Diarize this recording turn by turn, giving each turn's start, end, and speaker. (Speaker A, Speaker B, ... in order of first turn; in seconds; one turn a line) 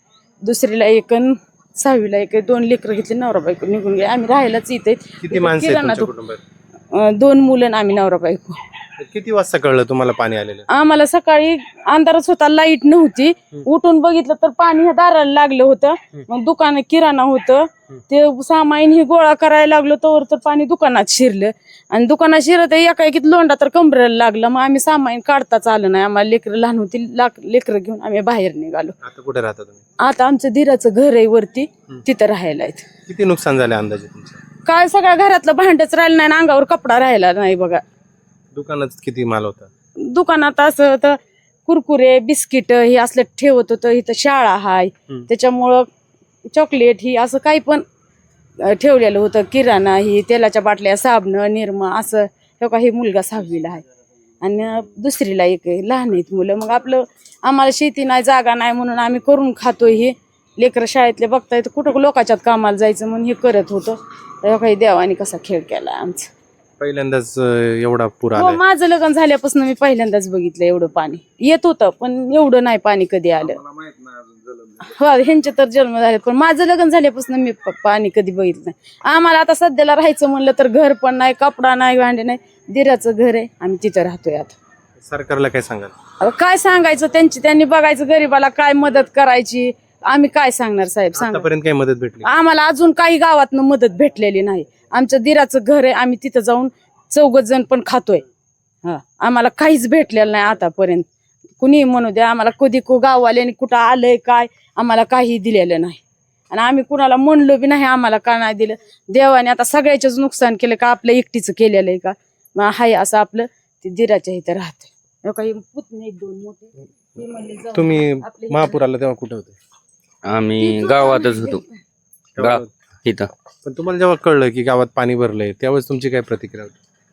Speaker A: 0.4-6.1
Speaker B: 5.2-6.4
Speaker A: 6.9-8.6
Speaker B: 9.0-10.7
Speaker A: 10.7-28.9
Speaker B: 29.0-29.8
Speaker A: 30.0-32.9
Speaker B: 33.1-34.4
Speaker A: 34.6-37.8
Speaker B: 38.5-39.7
Speaker A: 40.0-45.9
Speaker A: 46.5-47.8
Speaker A: 48.6-53.8
Speaker A: 54.4-66.3
Speaker B: 66.8-68.6
Speaker A: 68.3-73.6
Speaker A: 74.8-84.5
Speaker B: 85.0-85.9
Speaker A: 86.2-91.5
Speaker B: 91.2-92.3
Speaker A: 92.2-98.2
Speaker A: 98.8-101.1
Speaker A: 101.6-118.8
Speaker B: 117.7-119.6
Speaker C: 120.2-121.6
Speaker A: 120.6-121.8
Speaker B: 122.4-122.7
Speaker C: 122.4-123.3
Speaker B: 123.6-126.8